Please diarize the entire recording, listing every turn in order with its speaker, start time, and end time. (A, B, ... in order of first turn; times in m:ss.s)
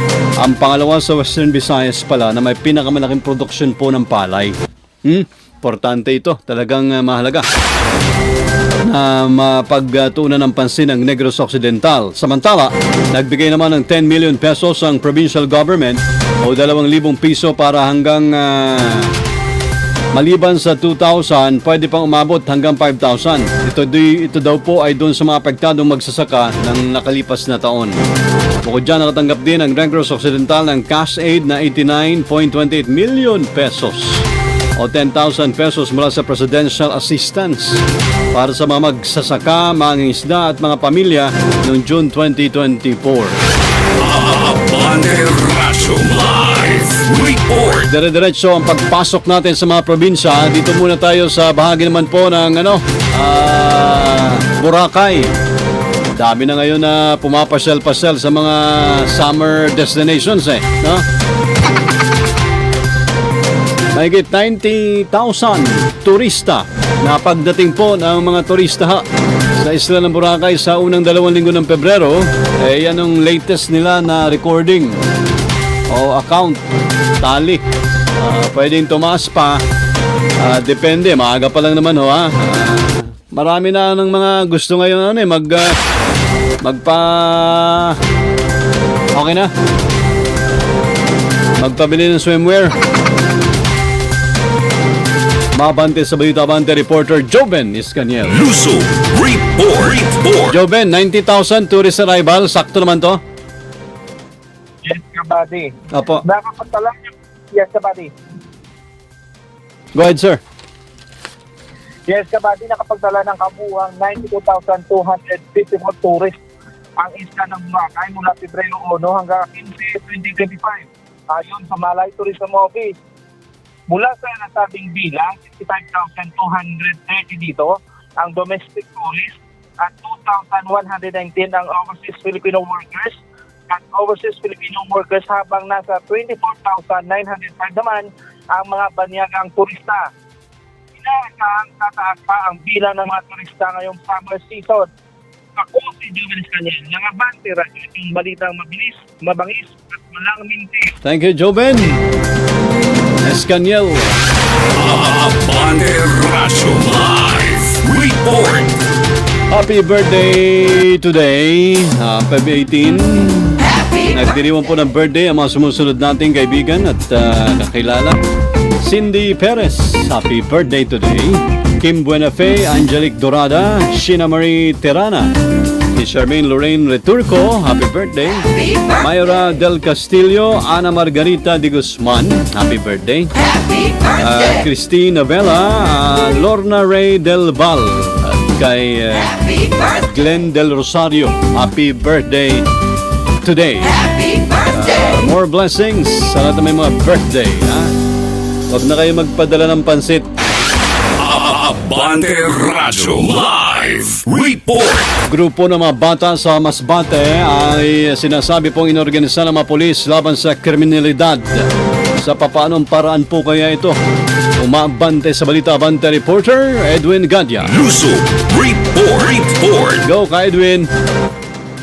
0:00.4-0:07.4 A
0:08.8-0:19.1 A
0:20.1-0:27.9 A
0:28.6-0:34.2 A
0:34.8-0:37.8 A
0:38.3-0:43.4 A
0:44.0-0:47.9 B
0:47.9-0:55.3 A
0:56.2-1:01.0 A
1:03.9-1:09.0 A
1:09.6-1:15.0 A
1:15.9-1:16.6 A
1:17.2-1:17.6 A
1:18.2-1:19.6 A
1:20.4-1:25.7 A
1:26.6-1:28.0 A
1:29.1-1:29.5 A
1:31.6-1:32.8 A
1:35.6-1:38.4 A
1:38.2-1:40.6 B
1:40.5-1:43.2 A
1:44.8-1:45.7 C
1:45.9-1:46.2 A
1:46.2-1:48.1 C
1:49.9-1:50.4 A
1:52.1-1:56.4 C
1:57.0-2:02.9 C
2:03.9-2:13.2 C
2:13.7-2:20.1 C
2:21.0-2:24.9 C
2:25.6-2:30.9 C
2:31.0-2:32.0 A
2:32.6-2:34.2 A
2:34.7-2:38.8 B
2:39.5-2:48.2 A
2:48.8-2:55.3 A
2:55.9-3:03.3 A
3:04.2-3:12.7 A
3:13.4-3:14.0 A
3:14.7-3:17.9 A
3:18.7-3:20.3 A
3:21.2-3:25.2 B
3:25.3-3:33.9 A
3:34.6-3:37.7 A
3:37.6-3:40.0 B
3:40.0-3:40.9 A